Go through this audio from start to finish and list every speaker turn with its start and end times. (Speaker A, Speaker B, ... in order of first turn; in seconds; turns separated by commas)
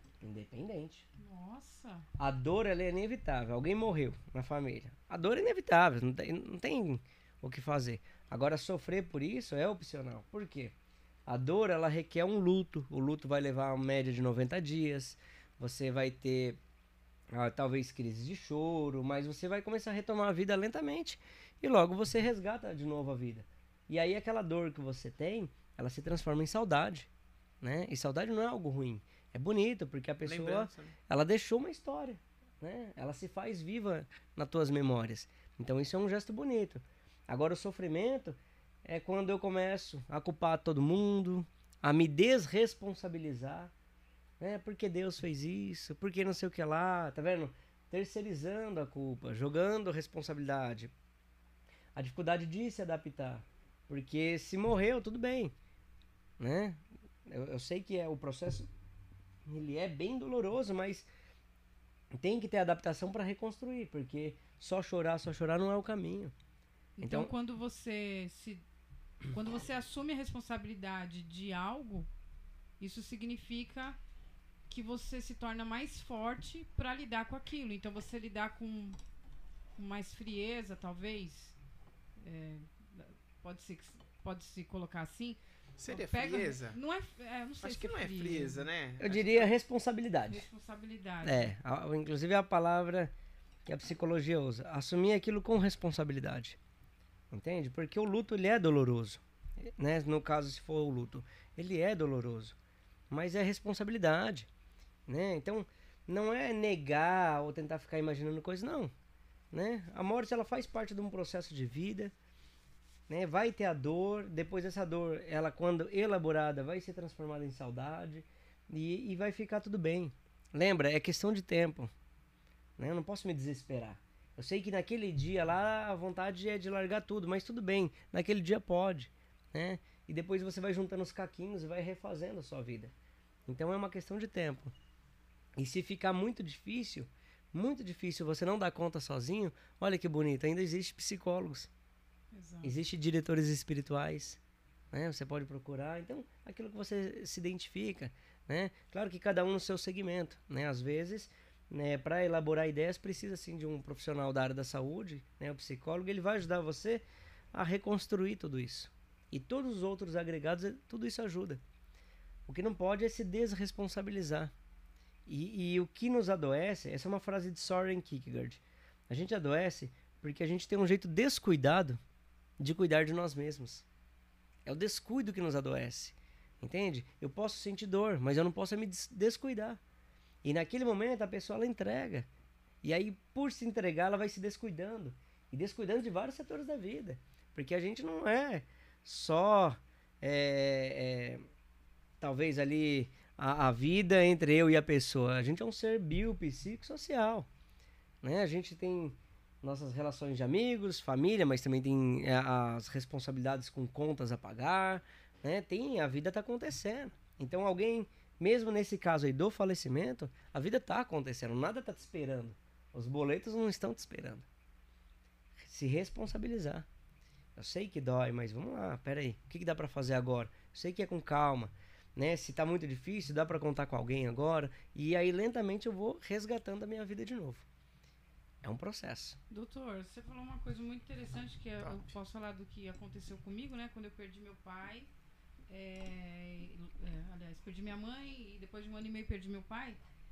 Speaker A: 0.2-1.0, Speaker B: 1.2-2.0, Speaker A: 2.2-10.7, Speaker A: 11.2-16.6, Speaker A: 17.3-27.1, Speaker A: 27.6-43.7, Speaker C: 30.2-30.9, Speaker A: 44.4-50.9, Speaker A: 51.9-55.5, Speaker A: 56.4-58.7, Speaker A: 59.4-61.1, Speaker A: 62.1-66.3, Speaker B: 67.0-68.6, Speaker A: 67.0-67.3, Speaker B: 69.3-72.1, Speaker B: 72.8-74.0, Speaker B: 74.7-79.0, Speaker B: 79.8-81.5, Speaker B: 82.2-88.6, Speaker C: 85.8-86.8, Speaker C: 87.6-89.5, Speaker A: 89.0-90.4, Speaker B: 90.3-91.5, Speaker A: 91.2-93.1, Speaker A: 93.6-96.6, Speaker A: 97.3-102.5, Speaker A: 103.1-104.5, Speaker A: 105.1-108.9, Speaker A: 109.5-112.1, Speaker A: 113.1-121.9, Speaker A: 122.8-132.9, Speaker A: 133.4-134.7, Speaker A: 135.6-141.7, Speaker B: 142.3-142.7, Speaker A: 142.6-144.4, Speaker A: 144.9-161.6, Speaker A: 162.5-164.5, Speaker A: 165.2-172.0, Speaker A: 172.6-173.8, Speaker A: 174.6-179.8, Speaker A: 180.4-182.3, Speaker A: 182.8-191.4, Speaker A: 192.2-197.5, Speaker A: 198.2-214.4, Speaker A: 215.6-216.8, Speaker A: 217.6-227.7, Speaker A: 228.6-229.4, Speaker B: 229.5-235.1, Speaker B: 235.7-240.0